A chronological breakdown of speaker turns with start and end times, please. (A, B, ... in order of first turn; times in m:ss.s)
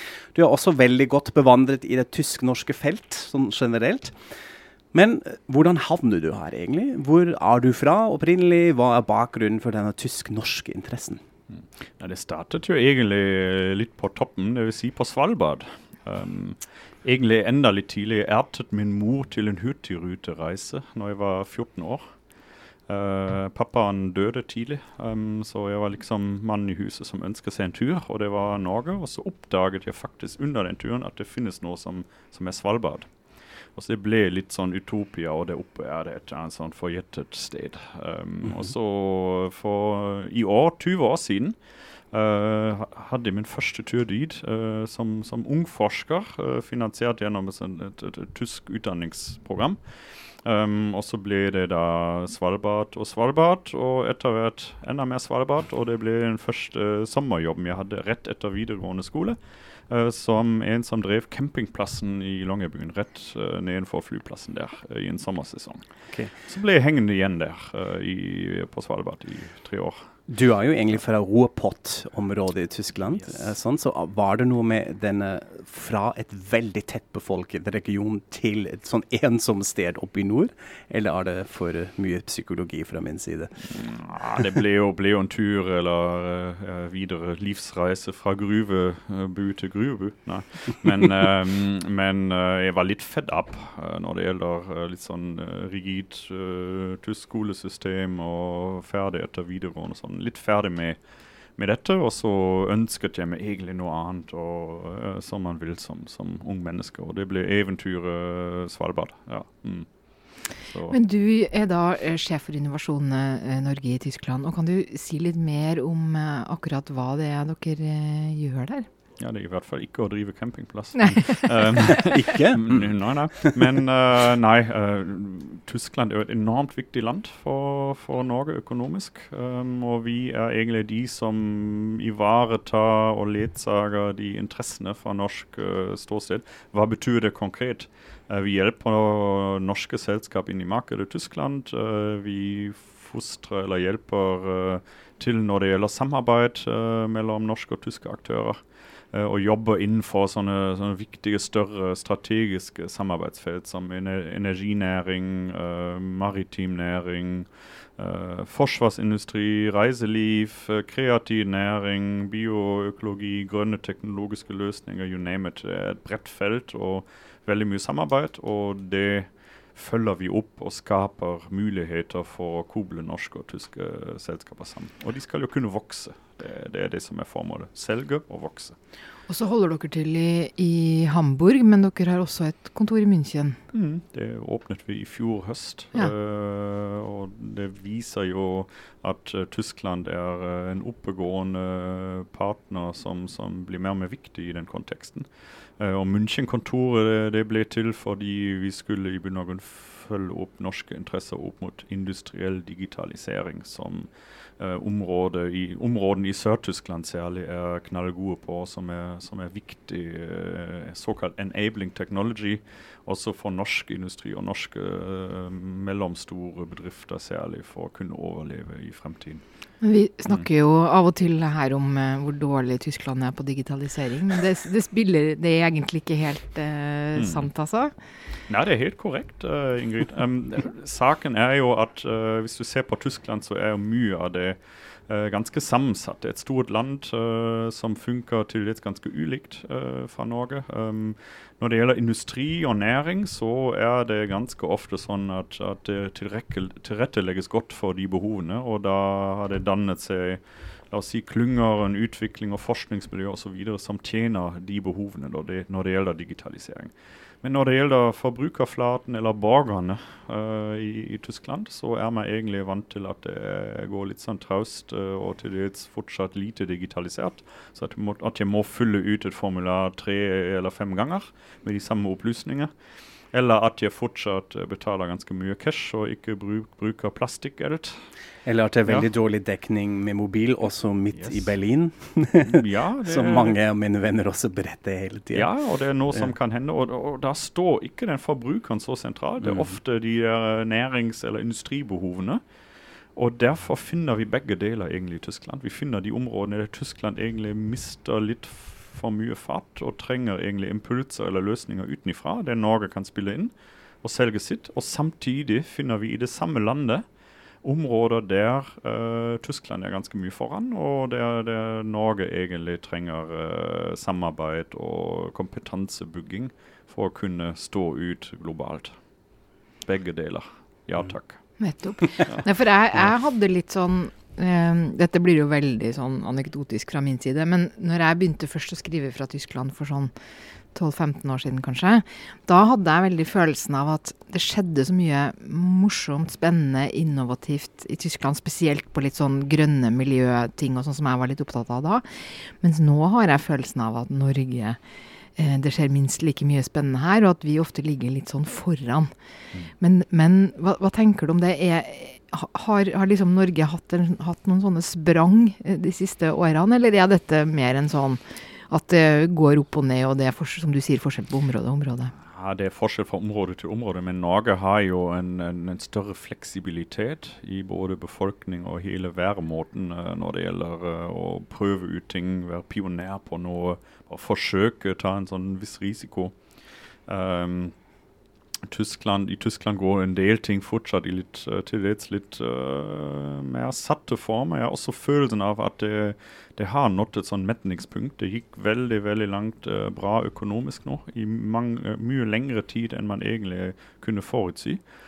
0:00.3-0:04.2 A
0:04.9-0:11.2 A
0:11.6-0:22.0 B
0:22.9-0:33.1 B
0:33.7-0:41.6 B
0:42.1-0:49.8 B
0:50.4-0:59.4 B
0:59.9-1:10.1 B
1:10.3-1:23.6 A
1:23.6-1:41.0 B
1:41.6-1:49.9 B
1:50.4-1:51.0 B
1:50.9-1:58.9 C
1:59.2-2:28.6 B
2:01.0-2:01.9 C
2:02.0-2:03.7 A
2:29.1-2:58.8 B
2:59.3-3:03.6 C
3:03.7-3:15.3 B
3:15.8-3:39.4 B
3:39.8-3:47.9 C
3:47.2-3:47.5 B
3:48.5-4:32.7 B
4:33.3-4:38.1 B
4:38.4-4:45.5 A
4:41.1-4:41.5 B
4:42.4-4:43.6 B
4:45.3-4:52.4 B
4:49.4-4:49.8 A
4:53.2-5:07.0 B
5:07.6-5:19.0 B
5:19.8-5:21.6 B
5:21.6-5:30.1 C
5:30.7-5:44.8 C
5:45.4-5:49.1 C
5:49.8-6:02.1 C
6:02.2-6:16.4 B
6:17.0-6:17.7 B
6:18.7-6:34.8 B